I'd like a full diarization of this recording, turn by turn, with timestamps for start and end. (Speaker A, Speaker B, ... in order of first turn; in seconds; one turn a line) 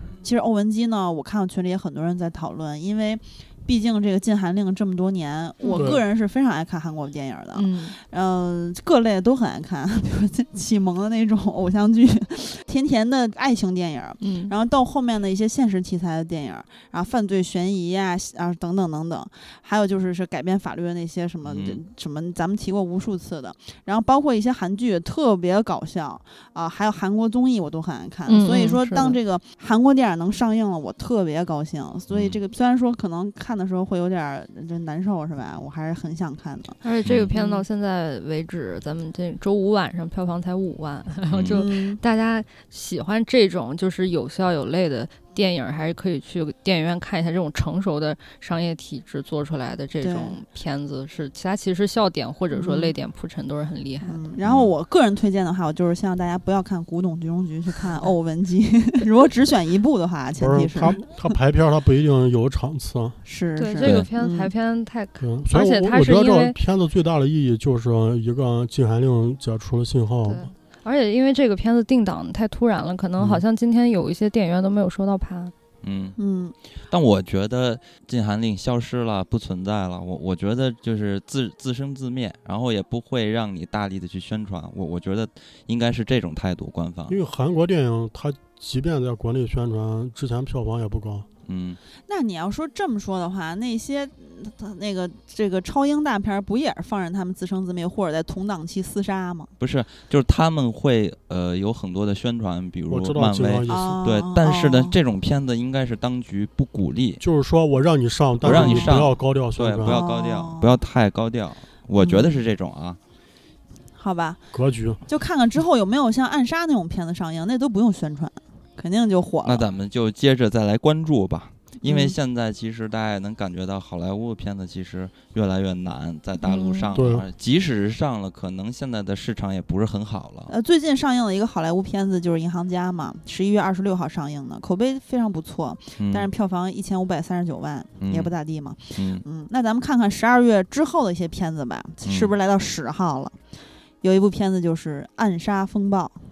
Speaker A: 0.2-36.8
Speaker B: 5.7-6.0
Speaker C: 7.5-8.0
Speaker C: 14.2-14.5
Speaker D: 21.5-21.8
Speaker C: 28.3-29.2
Speaker D: 32.1-32.4
Speaker C: 36.8-54.3
Speaker D: 37.1-37.3
Speaker A: 37.3-37.6
Speaker D: 41.3-41.6
Speaker A: 41.5-42.0
Speaker A: 50.0-50.4
Speaker A: 52.5-53.0
Speaker A: 54.0-61.0
Speaker D: 54.4-54.7
Speaker B: 60.4-63.2
Speaker A: 63.2-64.5
Speaker C: 63.6-66.5
Speaker D: 63.8-64.1
Speaker B: 65.2-70.5
Speaker C: 70.2-75.5
Speaker D: 73.2-73.4
Speaker D: 75.8-76.2
Speaker A: 76.2-76.5
Speaker D: 76.9-87.2
Speaker B: 87.1-91.3
Speaker D: 91.5-91.8
Speaker A: 92.1-99.5
Speaker D: 99.6-107.2
Speaker B: 102.9-104.0
Speaker A: 103.7-105.0
Speaker B: 107.2-110.0
Speaker D: 108.4-113.0
Speaker A: 108.5-109.0
Speaker A: 109.9-110.8
Speaker A: 112.0-112.4
Speaker A: 114.0-114.4
Speaker B: 114.5-115.0
Speaker A: 115.1-119.7
Speaker D: 119.5-130.5
Speaker A: 121.8-122.2
Speaker C: 126.4-127.0
Speaker B: 126.9-127.3
Speaker A: 130.5-143.3
Speaker D: 136.0-136.3
Speaker D: 138.0-138.3
Speaker D: 138.9-139.2
Speaker D: 142.1-142.3
Speaker A: 144.0-146.2